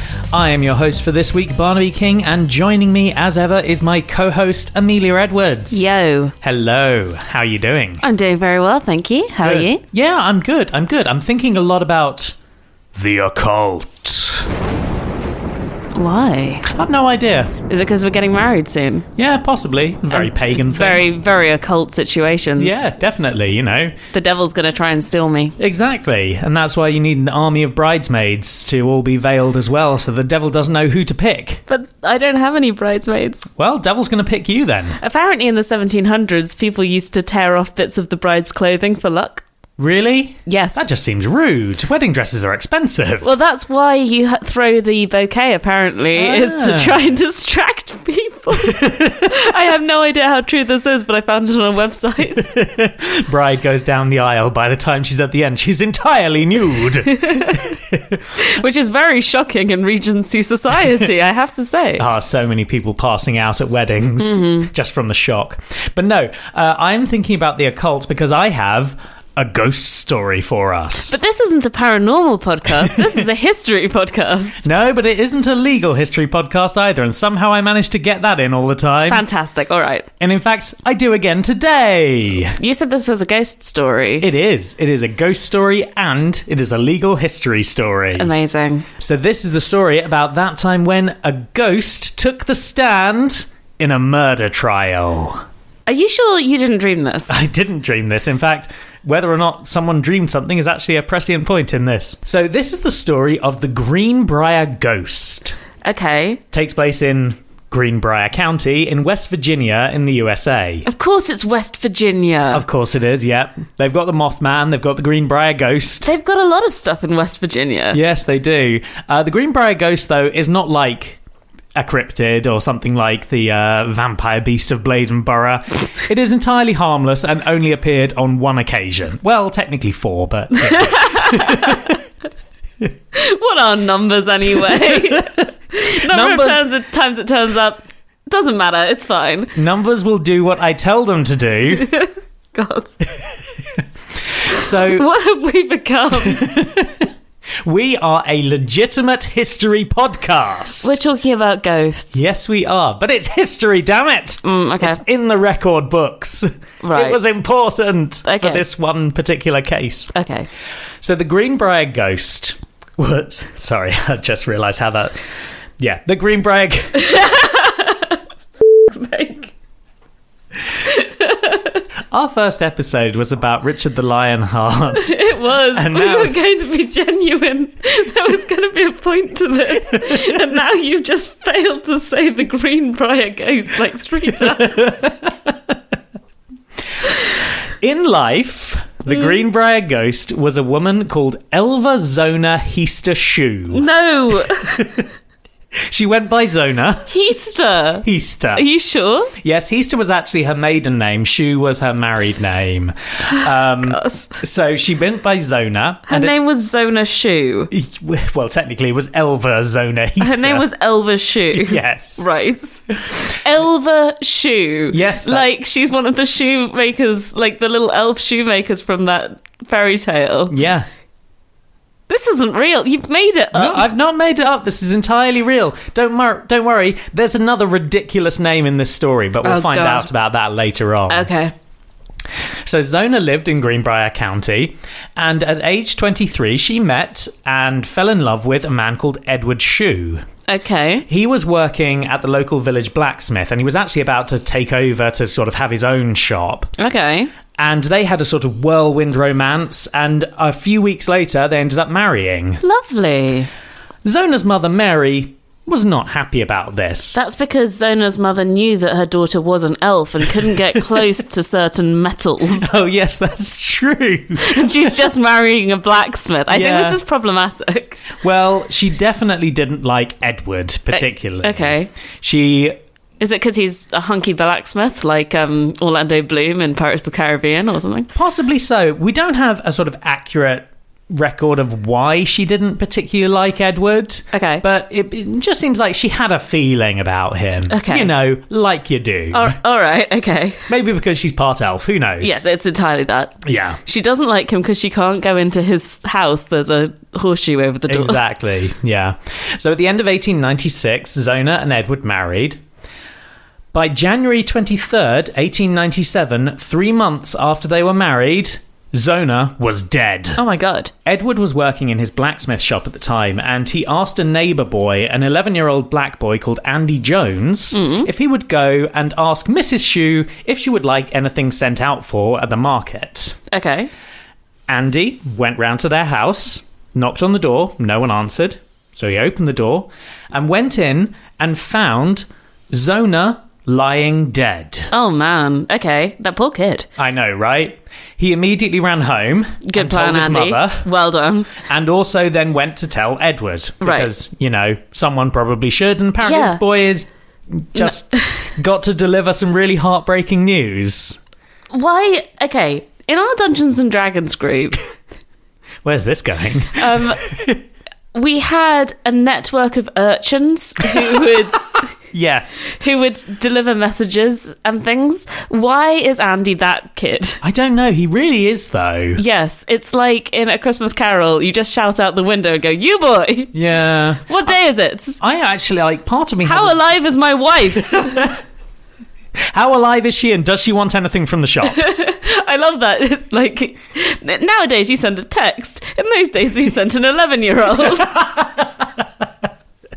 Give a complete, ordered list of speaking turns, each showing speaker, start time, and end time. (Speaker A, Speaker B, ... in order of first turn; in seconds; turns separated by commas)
Speaker A: 0.3-5.9, Speaker B: 5.7-6.3, Speaker A: 6.4-8.0, Speaker B: 8.0-9.8, Speaker A: 9.4-12.3, Speaker A: 12.9-14.5, Speaker B: 15.9-16.7, Speaker A: 16.6-17.5, Speaker B: 17.7-19.1, Speaker A: 19.2-21.0, Speaker B: 20.1-22.9, Speaker A: 22.6-24.0, Speaker B: 24.1-25.6, Speaker A: 25.6-31.6, Speaker B: 31.7-33.5, Speaker A: 33.6-35.0, Speaker B: 35.0-39.4, Speaker A: 39.8-43.3, Speaker B: 40.5-40.8, Speaker B: 43.2-52.5, Speaker A: 46.1-47.0, Speaker A: 48.5-49.5, Speaker A: 52.3-58.4, Speaker B: 57.1-57.8, Speaker B: 58.4-62.0, Speaker A: 62.0-71.2, Speaker B: 64.2-64.7, Speaker B: 71.1-74.6, Speaker A: 74.6-79.2, Speaker B: 79.1-80.1, Speaker A: 80.2-82.6, Speaker B: 82.6-84.3, Speaker A: 84.2-88.3, Speaker B: 88.2-88.9, Speaker A: 89.0-95.4, Speaker B: 95.9-97.4, Speaker A: 97.3-105.6, Speaker B: 105.8-106.4, Speaker A: 106.5-110.9, Speaker B: 110.9-112.7, Speaker A: 112.5-116.1, Speaker B: 116.0-118.0, Speaker A: 117.9-121.2, Speaker A: 121.8-132.0, Speaker B: 130.6-132.0, Speaker B: 133.1-139.5, Speaker A: 134.7-135.2, Speaker A: 136.1-136.6, Speaker A: 139.6-141.9, Speaker B: 141.7-143.0, Speaker A: 144.4-145.1, Speaker B: 144.6-146.4, Speaker A: 146.2-147.1, Speaker A: 147.6-151.0, Speaker B: 150.8-152.3, Speaker A: 152.1-160.1, Speaker B: 154.4-155.0, Speaker B: 156.8-157.2, Speaker B: 158.2-158.6, Speaker B: 160.1-160.5, Speaker A: 161.0-165.2, Speaker A: 165.8-167.3, Speaker B: 167.0-168.2, Speaker B: 168.9-169.5, Speaker B: 170.8-171.8, Speaker A: 172.1-175.2, Speaker B: 174.9-185.1, Speaker A: 175.7-176.4, Speaker A: 179.9-180.3, Speaker A: 184.3-185.8, Speaker A: 187.8-193.8, Speaker B: 189.1-189.4, Speaker B: 193.7-195.0, Speaker A: 194.5-195.0, Speaker A: 195.9-197.1, Speaker B: 197.1-199.3, Speaker A: 198.0-198.7, Speaker A: 199.4-206.3, Speaker B: 203.3-204.4, Speaker B: 206.1-207.7, Speaker A: 207.7-210.7, Speaker B: 210.2-220.6, Speaker A: 211.5-212.3, Speaker A: 214.9-215.5, Speaker A: 220.5-220.9, Speaker B: 222.1-223.9, Speaker A: 223.5-231.3, Speaker B: 229.4-230.1, Speaker B: 231.1-231.5, Speaker A: 232.7-240.2, Speaker B: 240.5-241.1, Speaker A: 241.1-246.7, Speaker B: 246.8-247.3, Speaker A: 247.6-252.6, Speaker B: 252.6-253.5, Speaker A: 254.0-257.2, Speaker B: 257.1-262.7, Speaker A: 262.6-265.1, Speaker B: 264.4-268.0, Speaker A: 266.5-267.0, Speaker A: 268.2-272.8, Speaker B: 270.9-271.9, Speaker B: 273.2-278.1, Speaker A: 278.1-289.6, Speaker B: 284.3-284.6, Speaker B: 287.7-288.1, Speaker B: 289.3-290.7, Speaker A: 290.7-292.4, Speaker B: 292.2-298.2, Speaker A: 293.4-293.8, Speaker A: 297.9-302.6, Speaker A: 303.7-310.4, Speaker B: 310.4-310.9, Speaker A: 311.1-323.4, Speaker B: 317.7-318.1, Speaker B: 323.5-323.9, Speaker A: 324.7-334.9, Speaker B: 334.9-336.9, Speaker A: 337.0-340.9, Speaker B: 339.6-341.5, Speaker A: 341.6-351.2, Speaker B: 343.8-344.1, Speaker B: 346.2-346.6, Speaker B: 347.8-348.4, Speaker B: 351.7-354.9, Speaker A: 355.8-357.6, Speaker B: 356.8-357.2, Speaker B: 358.1-361.9, Speaker A: 362.1-362.8, Speaker B: 362.8-367.4, Speaker A: 367.4-369.2, Speaker B: 369.2-373.5, Speaker A: 373.5-374.5, Speaker B: 374.3-375.2, Speaker A: 375.2-376.8, Speaker B: 376.4-378.3, Speaker A: 377.8-378.3, Speaker A: 379.5-382.1, Speaker B: 381.6-388.2, Speaker A: 387.9-389.1